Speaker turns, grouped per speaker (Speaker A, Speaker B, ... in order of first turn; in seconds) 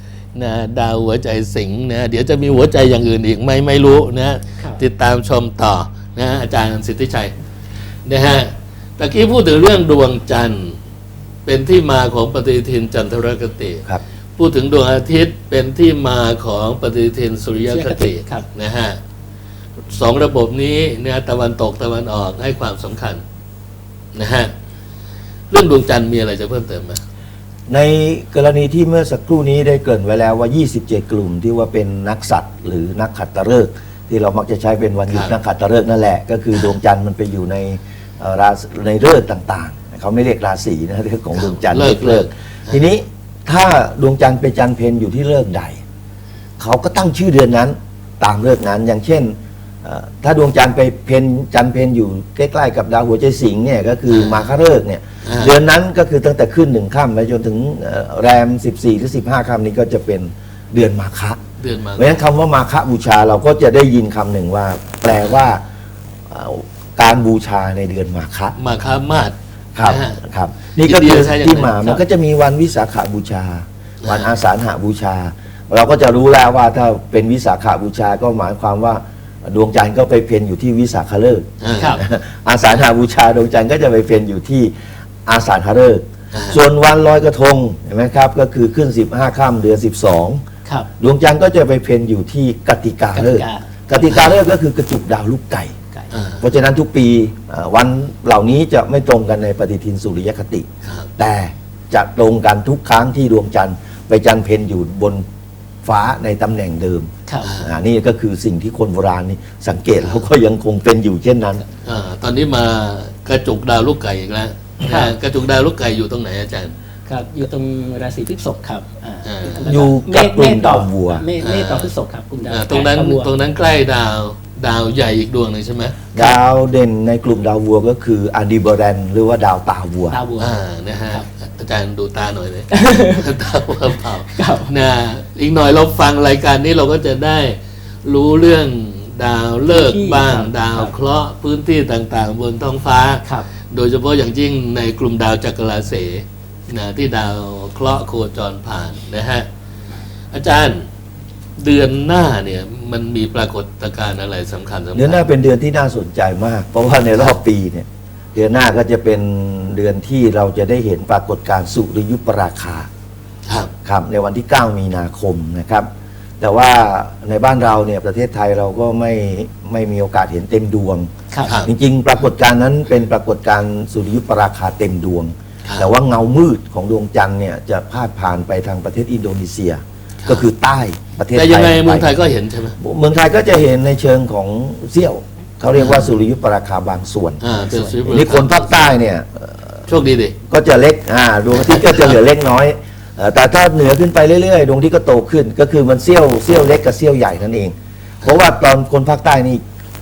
Speaker A: 0.3-7.3, 8.0-10.8, 11.4-19.0, 19.9-23.2, 24.1-24.5, 25.5-27.0, 35.1-35.4, 41.3-42.8, 54.1-54.5, 55.2-55.5, 61.6-62.2, 68.6-70.2, 70.7-72.0, 74.0-74.3, 81.6-82.0, 86.3-86.6, 94.0-94.4, 96.1-96.5, 100.8-101.1, 107.4-107.8, 111.8-116.7, 119.2-119.8, 121.4-121.9, 122.5-126.0, 130.3-149.5, 150.3-150.8, 151.6-155.2, 163.5-163.7, 171.4-171.7, 175.7-175.9, 181.3-182.8, 185.7-186.1, 187.4-188.9, 189.9-190.3, 191.5-192.2
Speaker B: 17.6-18.4, 81.7-82.0, 93.1-93.7, 114.8-115.1, 117.0-123.3, 130.1-130.6, 132.7-133.2, 134.3-134.7, 139.7-140.9, 171.3-171.6, 187.6-188.0
Speaker C: 27.7-45.8, 46.6-61.4, 62.0-65.6, 66.3-68.5, 69.7-84.7, 85.2-90.4, 91.0-95.7, 96.4-100.7, 101.2-105.2, 105.8-107.1, 107.6-111.6, 119.7-121.3, 126.1-130.2, 154.9-162.9, 163.8-165.9, 166.4-171.1, 171.6-182.2, 182.8-187.4, 188.0-189.9, 190.5-199.6